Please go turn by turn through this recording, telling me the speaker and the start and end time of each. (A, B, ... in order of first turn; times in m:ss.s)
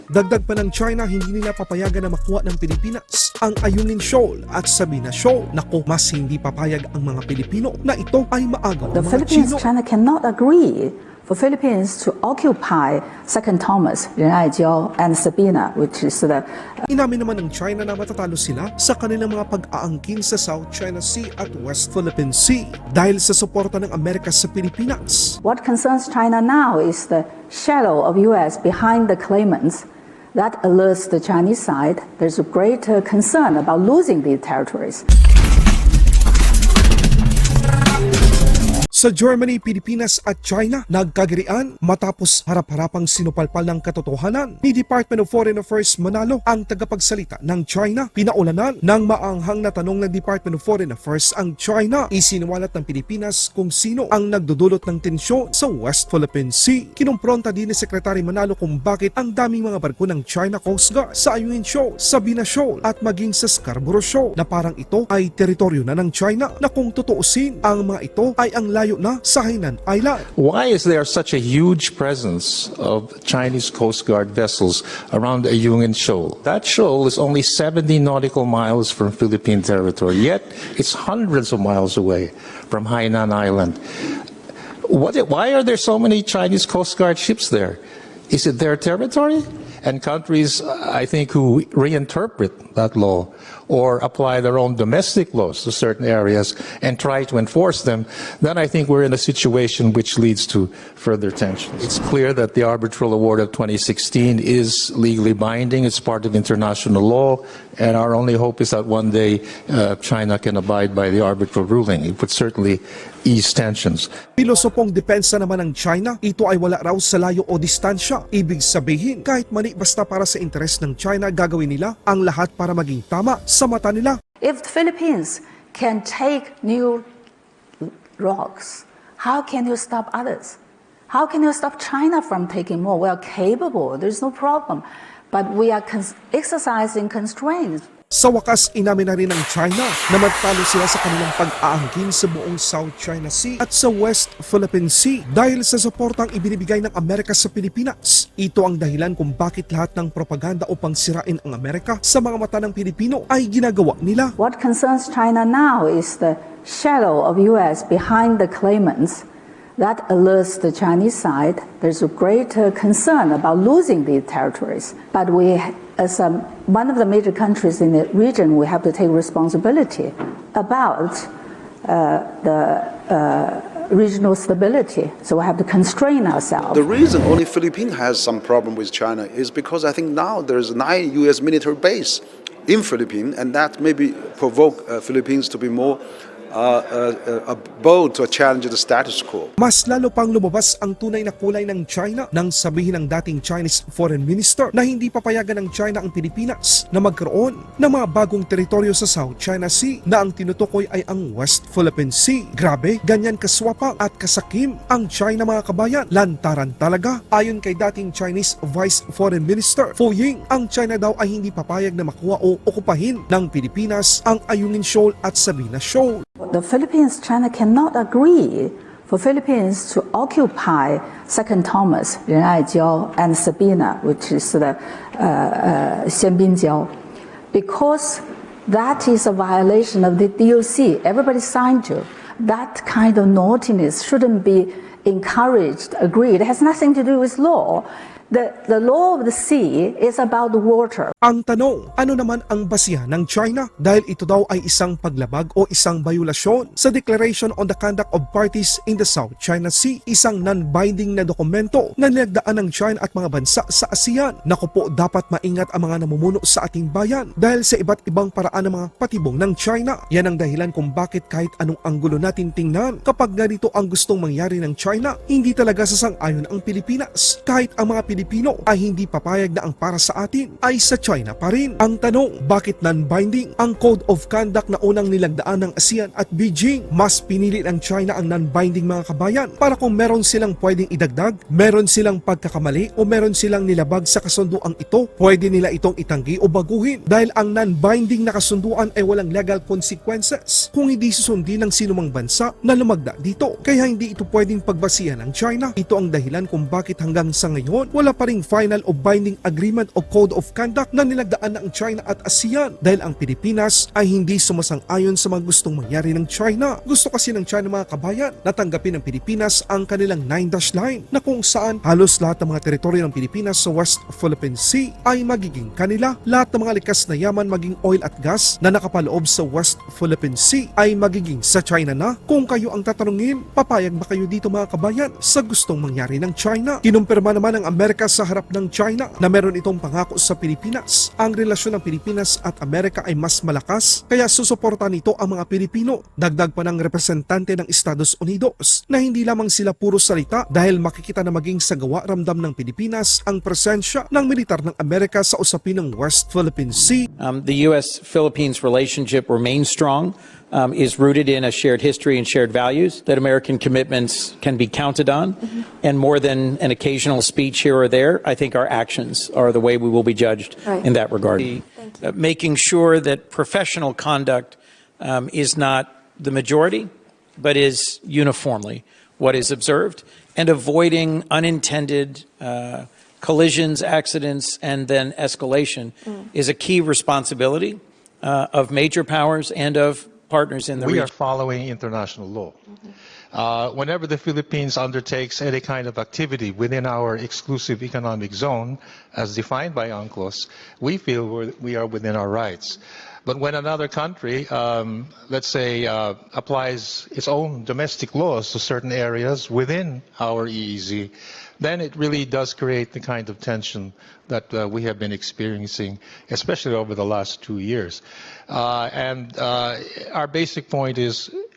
0:00.1-0:09.7 A
0:08.9-0:16.9 B
0:16.9-0:25.4 A
0:25.4-0:35.0 B
0:38.9-1:10.3 A
1:10.4-1:24.2 C
1:24.8-1:54.1 C
1:54.4-2:04.2 A
2:04.4-2:07.0 B
2:07.8-2:10.6 B
2:11.1-2:17.9 B
2:18.1-2:34.3 A
2:34.4-2:39.2 B
2:39.8-2:51.3 B
2:51.8-2:56.8 B
2:56.7-3:09.5 D
3:09.6-3:36.2 A
3:36.4-3:46.9 B
3:47.5-4:01.1 B
4:01.2-5:47.1 A
5:47.2-6:21.1 E
6:20.8-6:22.6 C
6:23.3-6:51.3 C